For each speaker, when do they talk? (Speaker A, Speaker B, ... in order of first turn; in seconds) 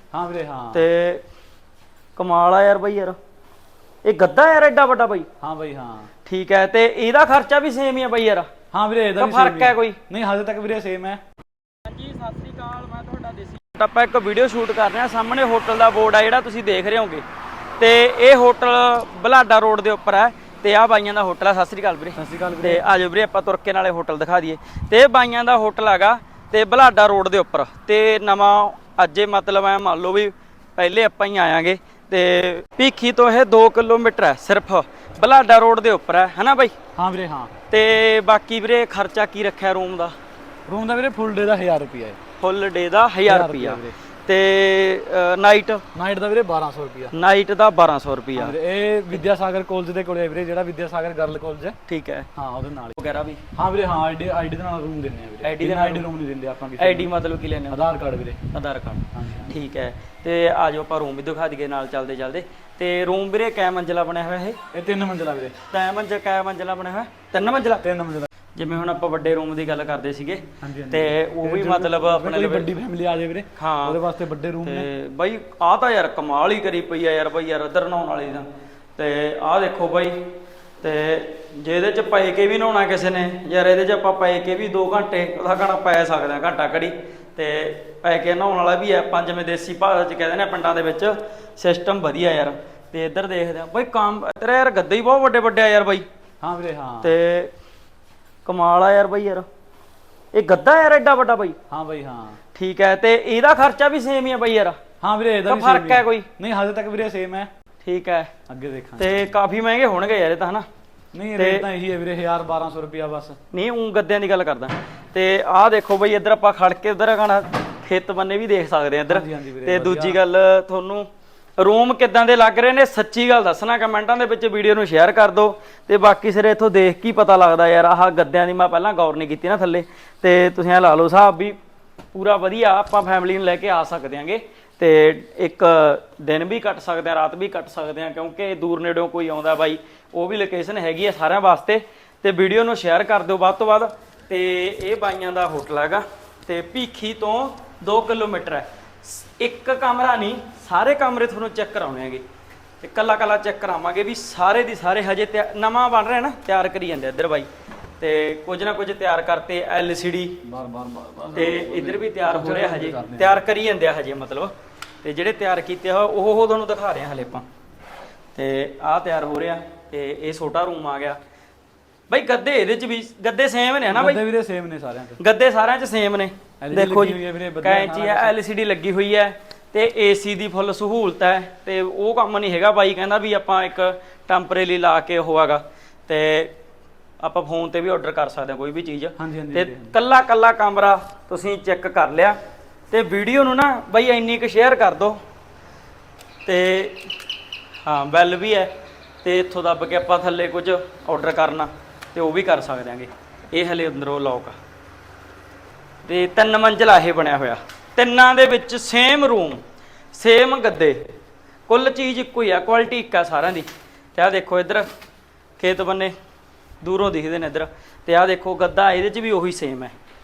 Speaker A: 0.1-0.8, 5.4-6.1, 8.7-11.2, 22.1-22.8, 37.0-37.5, 40.7-42.2, 43.3-44.0, 45.9-47.1, 48.4-51.8, 52.4-53.0, 53.6-57.1, 57.7-58.4, 59.1-59.5, 64.7-65.6, 67.8-68.3, 70.6-74.9, 96.4-97.1, 101.7-102.4, 105.0-107.5, 108.5-109.2, 111.1-113.4, 119.1-120.2, 160.4-163.4, 173.9-175.2, 176.6-178.4, 189.2-189.9
Speaker B: 0.7-1.2, 2.2-3.2, 4.0-5.3, 6.3-8.5, 9.2-10.0, 11.8-17.2, 17.8-36.8, 37.7-40.1, 42.4-45.8, 47.1-48.5, 51.9-52.3, 53.0-53.4, 55.4-56.1, 56.8-57.8, 58.5-64.6, 65.7-67.8, 68.5-72.7, 73.6-74.0, 74.6-80.2, 80.8-96.1, 97.0-97.5, 98.5-99.5, 100.3-101.6, 102.5-104.8, 105.5-106.3, 107.8-108.3, 109.0-110.7, 111.4-111.6, 113.5-131.6, 132.1-152.2, 152.8-157.5, 158.0-160.4, 161.3-167.5, 168.3-171.2, 172.1-174.2, 175.2-186.5, 187.2-192.4, 192.9-195.2, 196.5-197.1, 197.8-198.7, 199.2-204.6, 206.1-209.6, 210.1-211.2, 211.7-214.9, 215.6-216.1, 216.8-219.9